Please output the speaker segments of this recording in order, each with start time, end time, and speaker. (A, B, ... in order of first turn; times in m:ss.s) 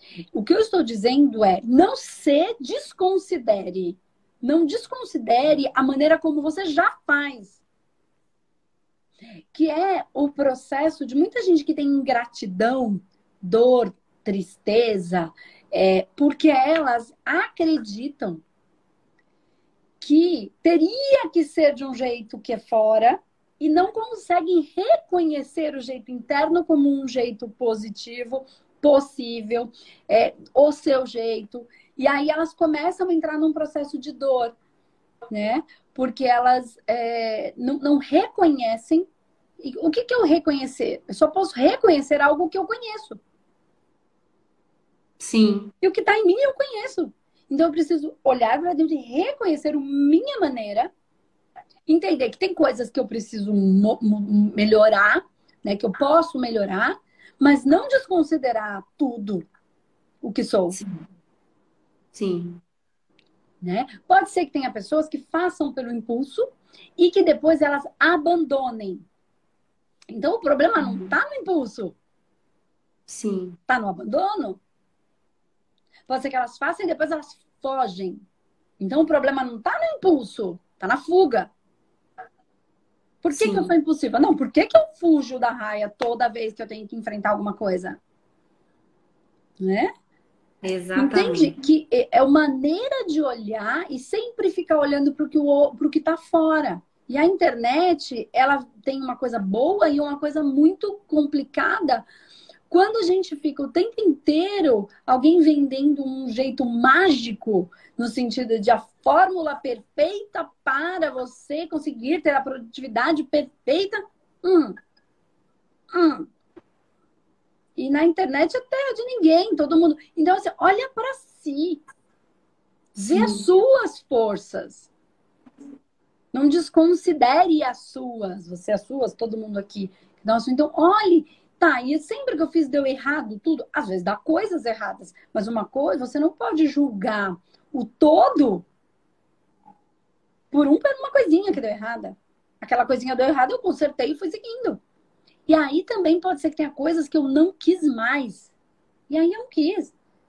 0:00.4-0:07.6 A
0:09.5-0:18.4 A
0:20.0-0:34.6 A
0:35.3-0:39.1 A
0:39.6-0:43.2 A
0:45.2-0:45.7 B
0:45.8-0:50.9 A
0:51.9-0:59.4 A
1:00.2-1:00.8 A
1:00.7-1:01.0 B
1:02.1-1:02.6 B
1:03.6-1:09.1 A
1:10.1-1:12.0 A
1:10.8-1:11.1 B
1:13.1-1:13.6 B
1:13.7-1:14.6 A
1:16.1-1:18.2 A
1:18.8-1:21.5 A
1:23.2-1:28.0 A
1:23.3-1:23.7 B
1:29.6-1:29.9 A
1:30.6-1:31.6 B
1:31.0-1:42.1 A
1:42.7-1:54.8 A
1:55.9-1:56.3 A
1:57.8-2:01.8 A
2:02.9-2:04.9 A
2:03.1-2:03.4 B
2:06.3-2:18.6 A
2:20.5-2:24.8 A
2:25.5-2:28.5 A
2:29.1-2:29.9 A